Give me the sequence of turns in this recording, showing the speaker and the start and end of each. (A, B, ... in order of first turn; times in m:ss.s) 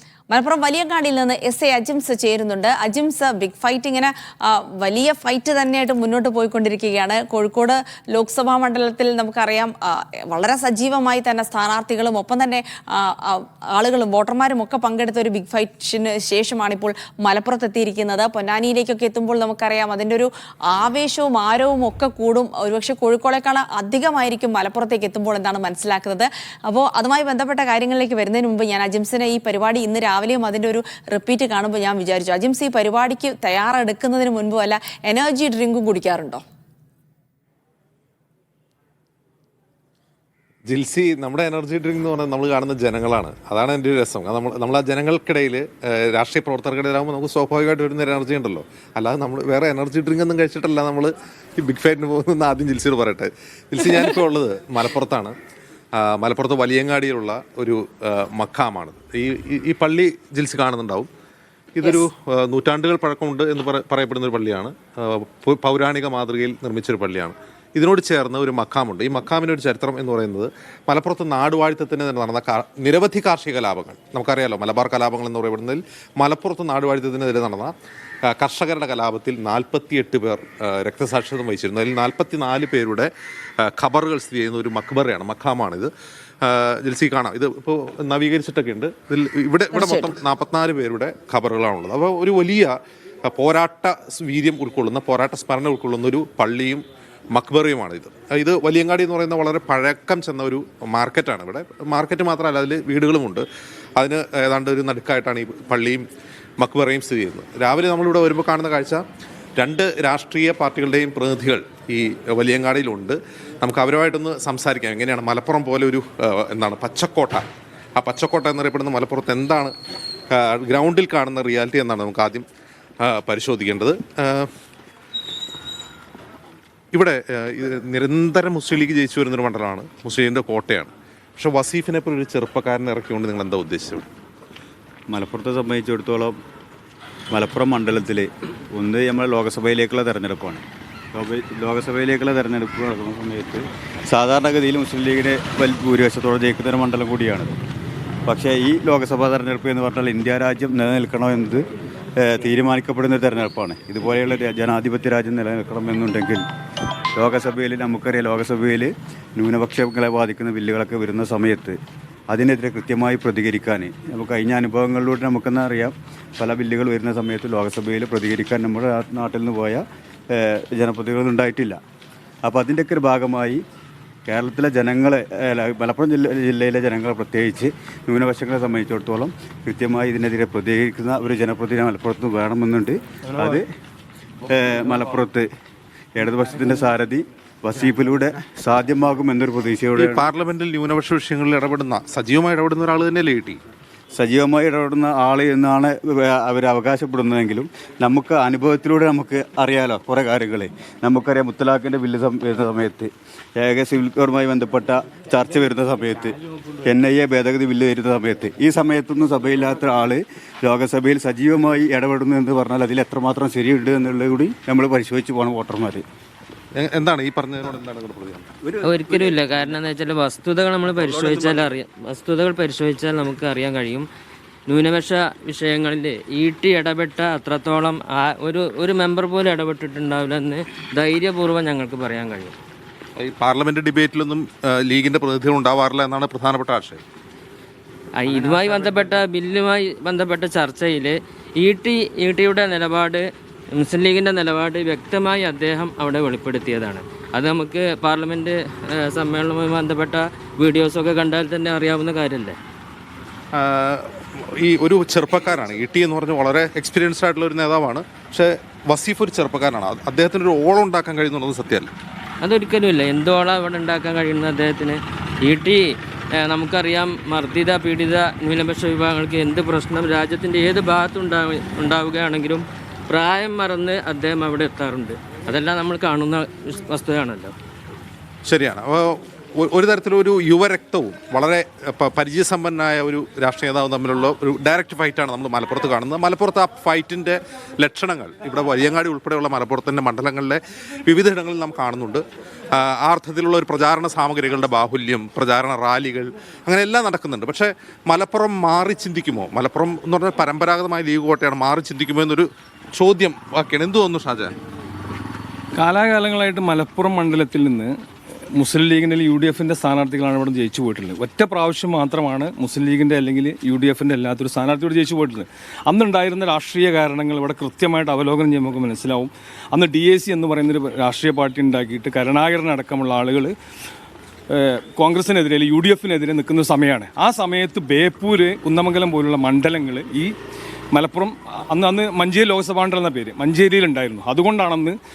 0:00.3-0:36.4 A
0:40.7-0:55.4 B
0:56.0-1:01.1 B
1:01.8-1:17.7 B
1:18.3-1:23.1 B
1:23.6-1:25.9 B
1:26.4-1:43.4 B
1:29.7-1:30.1 A
1:44.0-1:46.0 B
1:46.6-1:49.0 B
1:49.6-1:57.5 B
1:58.0-1:59.7 B
2:00.3-2:02.5 B
2:03.0-2:04.5 B
2:06.9-2:14.1 B
2:15.1-2:16.4 C
2:17.3-2:27.6 C
2:28.3-2:31.6 C
2:32.2-2:36.4 C
2:37.2-2:41.8 C
2:42.3-2:49.8 C
2:50.4-2:51.8 C
2:52.4-2:53.6 C
2:54.3-3:03.7 C
3:04.5-3:05.5 C
3:06.2-3:10.3 C
3:10.0-3:13.6 B
3:14.1-3:36.0 C
3:36.8-3:38.5 B
3:38.8-3:44.1 D
3:41.2-3:41.4 C
3:44.7-3:52.5 D
3:53.2-3:57.0 B
3:58.2-4:12.6 D
4:13.5-4:21.9 B
4:22.4-4:25.8 D
4:26.4-4:37.5 D
4:38.4-5:04.5 B
5:05.8-5:07.9 E
5:08.6-5:23.5 E
5:24.5-5:30.3 E
5:30.9-5:35.0 E